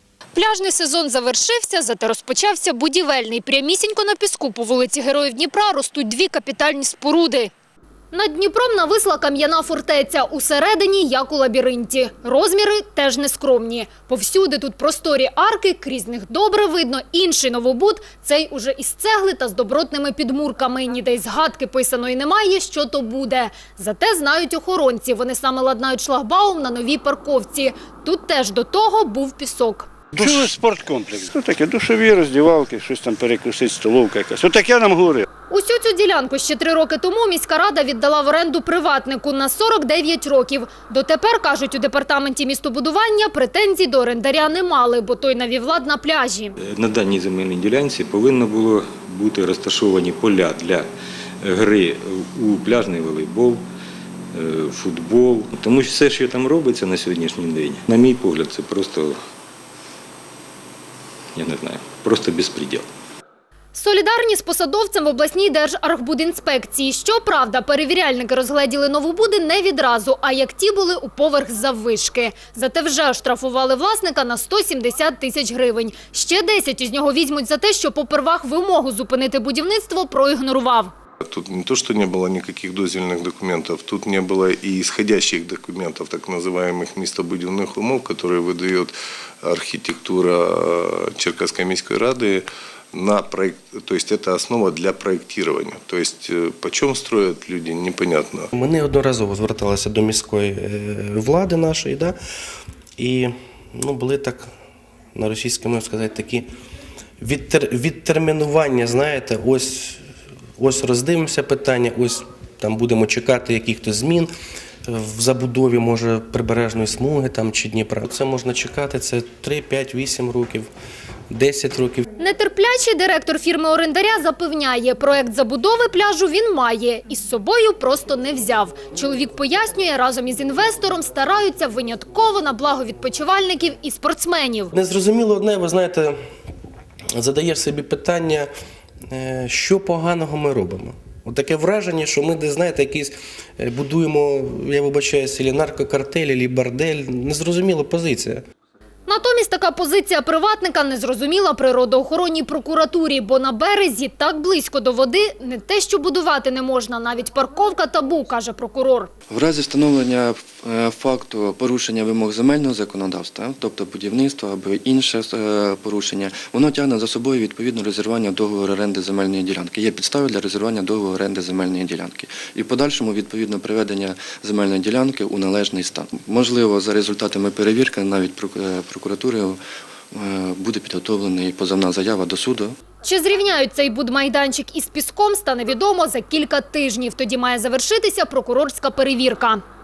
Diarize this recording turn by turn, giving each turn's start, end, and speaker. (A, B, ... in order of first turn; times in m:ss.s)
0:00.3-0:07.5 A
0:08.1-0:29.9 A
0:30.1-0:35.2 B
0:35.5-0:46.6 A
0:46.6-0:50.9 C
0:51.4-0:53.6 C
0:54.3-0:59.2 C
1:01.4-1:02.9 C
1:03.7-1:20.9 A
1:21.2-1:38.5 D
1:38.6-1:42.2 E
1:43.0-1:44.5 E
1:45.2-1:46.5 E
1:47.2-1:50.0 E
1:50.6-1:54.3 E
1:54.9-2:00.7 E
2:01.3-2:02.0 E
2:02.2-2:14.7 A
2:14.7-2:16.2 E
2:17.2-2:18.5 E
2:19.1-2:28.4 E
2:29.1-2:39.1 A
2:39.3-2:59.6 F
3:00.1-3:02.8 F
3:03.0-3:09.6 A